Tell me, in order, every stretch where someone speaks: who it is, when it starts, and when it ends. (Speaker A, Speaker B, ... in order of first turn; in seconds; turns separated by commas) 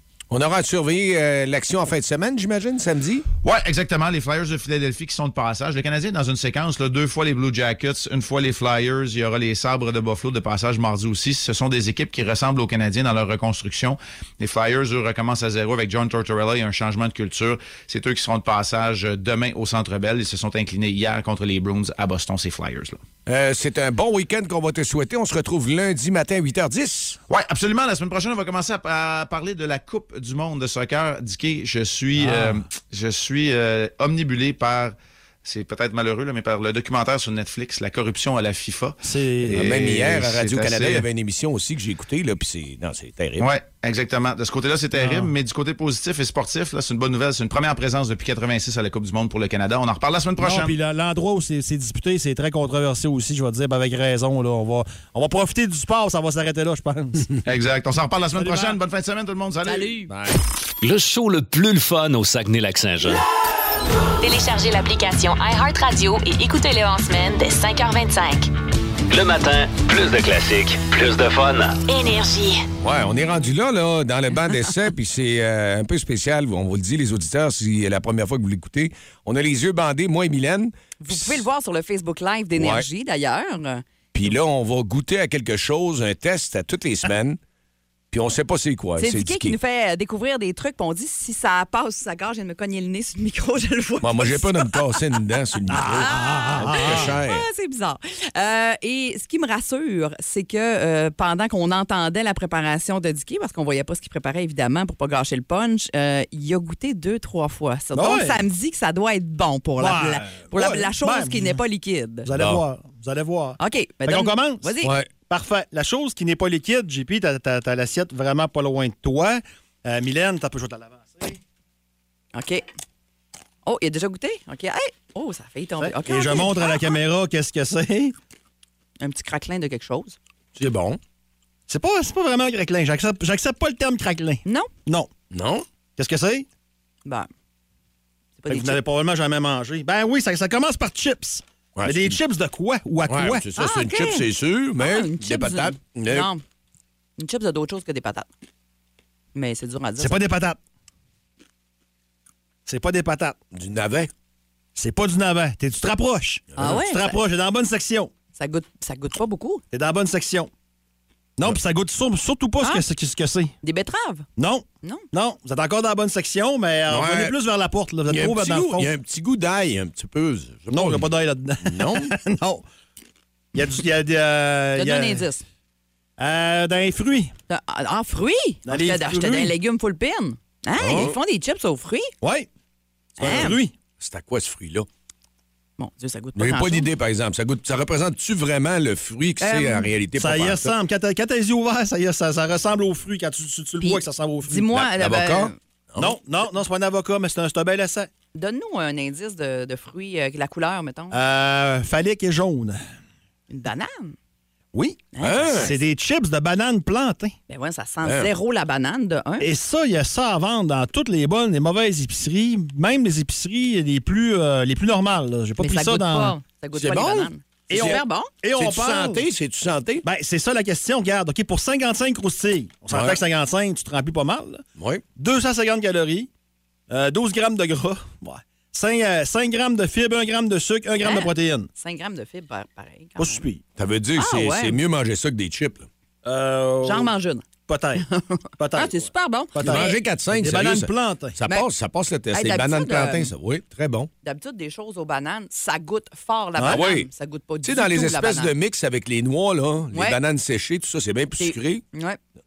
Speaker A: 0.3-3.2, Speaker B: 3.4-23.0, Speaker A: 23.3-27.2, Speaker B: 27.3-41.1, Speaker C: 32.2-32.6, Speaker C: 39.0-39.6, Speaker A: 39.5-43.5, Speaker B: 43.4-50.8, Speaker C: 44.9-45.3, Speaker C: 50.4-57.3, Speaker B: 57.5-60.0, Speaker C: 58.4-58.8, Speaker A: 60.1-60.4, Speaker D: 60.8-63.2, Speaker E: 64.2-68.5, Speaker D: 69.1-71.8, Speaker E: 71.9-72.7, Speaker A: 72.8-81.5, Speaker F: 81.0-83.9, Speaker A: 82.5-82.9, Speaker A: 84.1-87.4, Speaker A: 88.1-89.6, Speaker F: 89.0-95.0, Speaker A: 94.0-97.5, Speaker C: 95.7-97.1, Speaker F: 95.7-112.3, Speaker C: 107.9-108.4, Speaker C: 109.8-111.6, Speaker C: 112.2-114.7, Speaker A: 112.4-112.6, Speaker F: 113.6-115.0, Speaker A: 114.8-115.1, Speaker C: 115.3-121.4, Speaker F: 122.3-122.7, Speaker F: 123.7-126.9, Speaker C: 125.8-128.2, Speaker F: 129.0-130.2, Speaker A: 130.6-131.0, Speaker C: 131.7-135.1, Speaker F: 134.4-134.7, Speaker A: 135.3-135.7, Speaker C: 136.0-136.5, Speaker F: 137.1-137.3, Speaker F: 138.4-138.8, Speaker C: 138.5-143.4, Speaker A: 141.8-142.2, Speaker A: 143.1-146.3, Speaker F: 143.6-144.3, Speaker F: 144.8-146.4, Speaker F: 147.2-148.3, Speaker F: 149.3-150.2, Speaker C: 150.0-150.6, Speaker C: 152.7-153.4, Speaker A: 153.5-154.1, Speaker C: 154.8-158.1, Speaker F: 156.6-157.2, Speaker F: 158.4-159.6, Speaker C: 159.7-160.5, Speaker C: 161.4-163.5, Speaker F: 163.6-164.3, Speaker C: 164.4-168.9, Speaker A: 166.9-167.3, Speaker A: 168.1-171.1, Speaker C: 170.7-172.7, Speaker A: 171.7-172.1, Speaker C: 173.5-175.2, Speaker F: 174.8-175.4, Speaker C: 176.2-177.3, Speaker F: 177.5-182.1, Speaker C: 178.7-179.6, Speaker A: 180.8-181.2, Speaker C: 182.2-182.5, Speaker F: 183.2-183.6, Speaker C: 183.2-183.7, Speaker A: 184.0-184.9, Speaker F: 185.8-186.9, Speaker A: 186.3-190.7, Speaker F: 189.4-189.9, Speaker C: 190.2-194.7, Speaker F: 193.8-195.6, Speaker A: 194.7-196.2, Speaker C: 196.0-198.1, Speaker F: 198.3-201.2, Speaker C: 201.1-202.8, Speaker F: 203.5-204.2, Speaker C: 204.7-207.3, Speaker F: 205.1-205.8, Speaker A: 205.2-205.7, Speaker F: 207.5-209.5, Speaker A: 208.0-208.3, Speaker C: 209.4-216.4, Speaker F: 215.6-218.3, Speaker A: 216.7-218.0, Speaker C: 217.7-219.2, Speaker A: 218.6-220.0, Speaker C: 220.0-224.6, Speaker A: 222.9-223.2, Speaker A: 224.8-225.0, Speaker C: 225.2-226.3, Speaker C: 226.9-231.7, Speaker F: 231.0-233.4, Speaker C: 233.2-233.6, Speaker A: 233.8-235.9, Speaker F: 234.2-234.8, Speaker C: 236.2-237.1, Speaker F: 236.8-240.0, Speaker C: 237.7-238.1, Speaker C: 238.6-239.0, Speaker C: 239.5-241.4, Speaker A: 239.6-244.1, Speaker F: 242.3-243.3, Speaker F: 244.2-248.5, Speaker A: 246.7-247.1, Speaker A: 247.6-251.8, Speaker F: 249.9-250.2, Speaker F: 251.4-252.2